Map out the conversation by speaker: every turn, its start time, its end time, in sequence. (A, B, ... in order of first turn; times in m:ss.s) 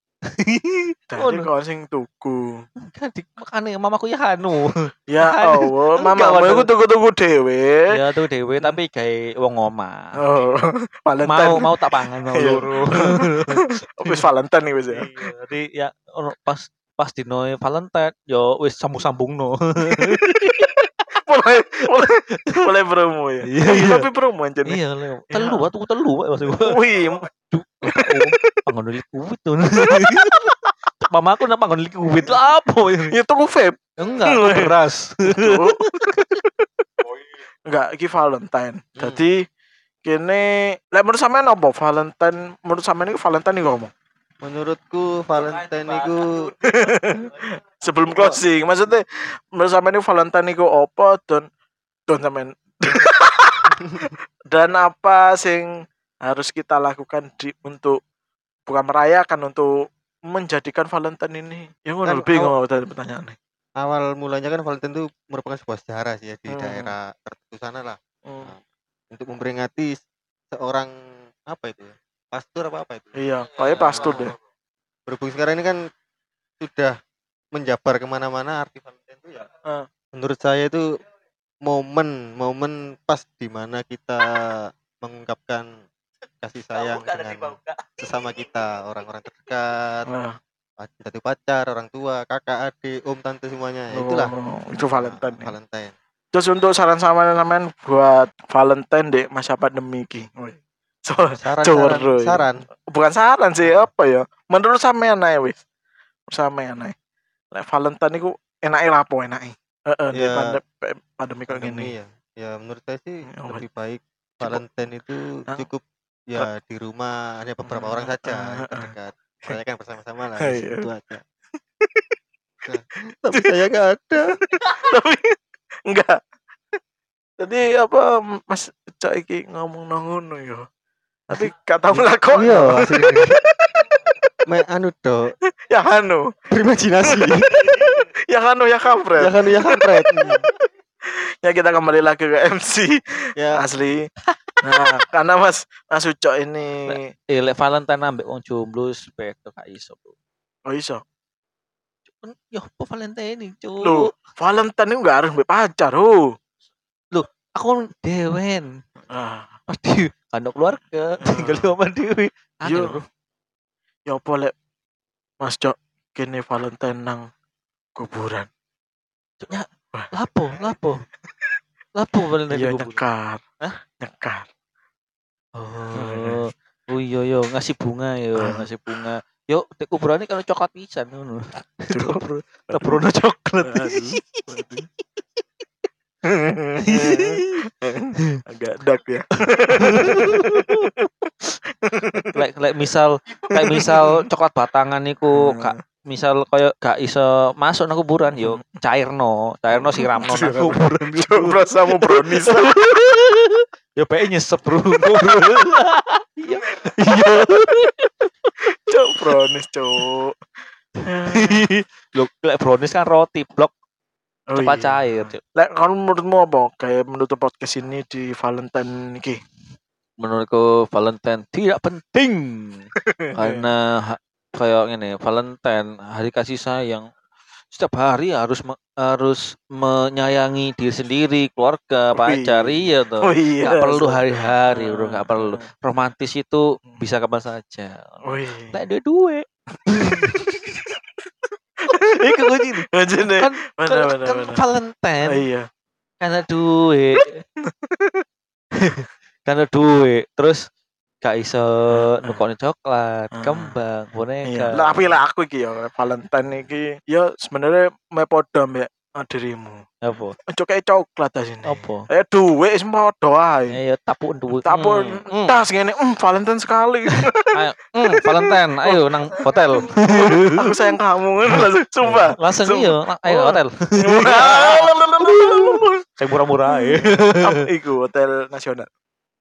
0:00.3-0:01.5 A
0:01.1-0:02.6 B
0:02.8-0:06.7 A
0:05.1-0:07.9 B
0:07.9-0:10.2 A
0:10.2-0:15.1 B
0:11.3-0:14.2 A
0:14.9-0:20.7 A
0:19.8-0:25.6 B
0:23.5-0:24.0 A
0:24.6-0:26.8 A
0:26.5-0:27.3 B
0:27.5-0:33.1 A
0:27.9-0:28.6 B
0:29.8-0:30.5 B
0:33.1-0:34.7 B
0:34.0-0:36.3 A
0:35.3-0:36.8 B
0:37.7-0:39.4 B
0:39.0-0:39.2 C
0:40.0-0:43.9 B
0:44.4-0:46.5 C
0:46.6-0:51.5 B
0:52.1-0:55.7 B
0:56.2-0:58.0 B
0:58.7-0:59.7 B
1:00.3-1:03.4 B
1:02.0-1:02.5 C
1:03.8-1:08.6 C
1:06.5-1:06.9 B
1:08.3-1:08.5 B
1:09.1-1:10.0 C
1:10.5-1:10.9 C
1:11.4-1:13.2 C
1:13.2-1:14.4 B
1:13.9-1:14.1 C
1:13.9-1:14.2 A
1:15.1-1:15.8 C
1:16.6-1:17.0 C
1:17.5-1:19.5 C
1:20.1-1:20.8 C
1:21.6-1:25.7 C
1:26.4-1:30.1 C
1:30.1-1:30.4 B
1:30.8-1:34.3 C
1:33.9-1:35.5 B
1:34.9-1:35.9 C
1:36.3-1:45.6 B
1:41.4-1:42.6 C
1:46.3-1:46.9 B
1:47.5-1:51.9 B
1:50.1-1:50.6 C
1:51.5-2:01.2 C
1:53.3-1:53.6 B
1:57.7-1:58.9 B
2:00.4-2:00.9 B
2:01.8-2:02.1 B
2:02.6-2:04.2 C
2:04.5-2:06.2 B
2:07.4-2:10.7 B
2:11.3-2:14.0 B
2:12.0-2:13.4 C
2:14.4-2:15.2 C
2:15.7-2:16.3 B
2:16.5-2:17.7 C
2:17.1-2:20.5 B
2:19.2-2:20.5 C
2:21.4-2:23.0 B
2:23.4-2:23.6 C
2:23.5-2:24.1 B
2:24.3-2:24.6 A
2:24.6-2:27.0 B
2:26.9-2:30.1 A
2:30.7-2:31.0 B
2:32.2-2:34.1 A
2:33.8-2:36.2 B
2:37.1-2:38.8 A
2:39.1-2:39.6 B
2:39.7-2:43.1 A
2:41.2-2:41.7 B
2:42.6-2:43.0 B
2:44.1-2:44.5 B
2:45.4-2:47.2 B
2:48.0-2:48.5 B
2:49.4-2:51.1 A
2:51.9-2:53.0 A
2:52.5-2:53.4 B
2:54.0-2:54.5 B
2:55.6-3:04.4 A
2:56.0-2:56.4 B
2:58.4-2:58.6 B
3:01.9-3:02.2 B
3:03.6-3:04.9 B
3:06.3-3:11.3 B
3:06.9-3:07.4 A
3:09.8-3:10.9 A
3:11.8-3:12.4 B
3:12.3-3:28.5 A
3:13.5-3:14.2 B
3:15.4-3:15.8 B
3:18.4-3:18.7 B
3:19.7-3:22.8 B
3:25.0-3:25.5 B
3:26.8-3:27.9 B
3:28.6-3:30.3 B
3:31.0-3:31.6 B
3:31.3-3:33.7 A
3:34.5-3:39.4 B
3:34.6-3:35.4 A
3:40.2-3:47.1 A
3:43.0-3:43.6 B
3:47.7-4:00.4 A
3:52.1-3:55.7 B
3:58.2-3:58.8 B
3:59.9-4:00.9 B
4:01.9-4:04.6 B
4:01.9-4:05.4 A
4:05.3-4:05.7 B
4:06.2-4:07.4 A
4:07.2-4:08.2 B
4:08.8-4:10.6 A
4:11.2-4:15.2 A
4:11.9-4:12.4 B
4:13.3-4:13.7 B
4:14.5-4:19.9 B
4:20.0-4:20.4 A
4:20.5-4:23.8 B
4:21.6-4:22.1 A
4:23.7-4:25.6 A
4:24.6-4:27.5 B
4:27.5-4:30.5 A
4:28.0-4:36.1 B
4:31.5-4:37.6 A
4:36.7-4:38.9 B